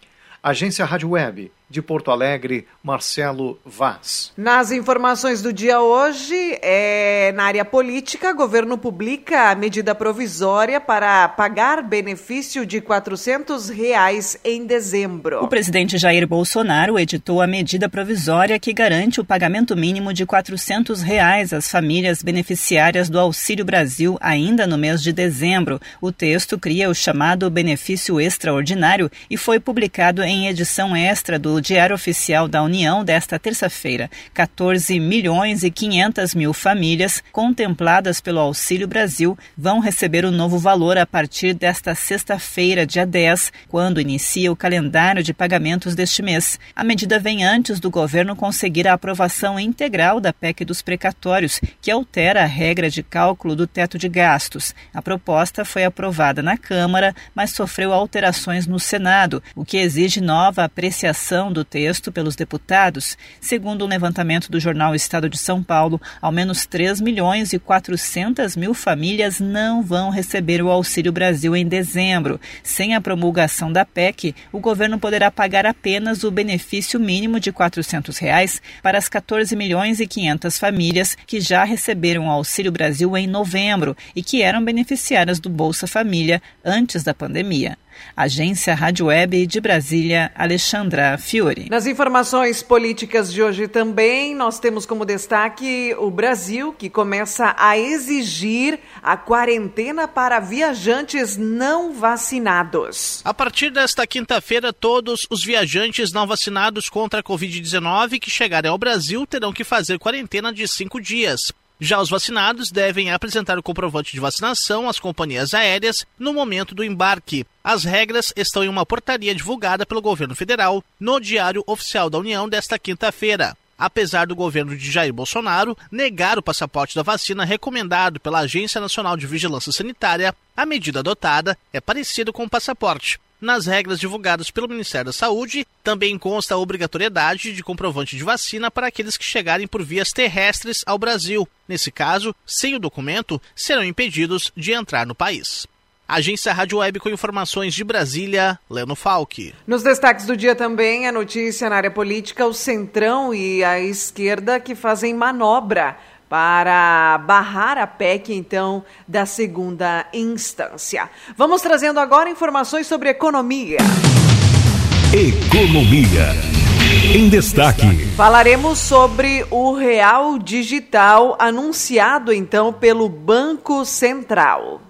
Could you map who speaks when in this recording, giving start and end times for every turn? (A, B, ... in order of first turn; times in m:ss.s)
0:00.4-0:04.3 A
0:04.4-0:15.5 B
0:15.4-1:31.7 C
1:31.7-1:43.2 B
1:43.2-2:29.5 D
2:29.7-2:44.0 B
2:45.1-2:46.4 E
2:47.1-2:48.1 E
2:48.2-2:54.8 B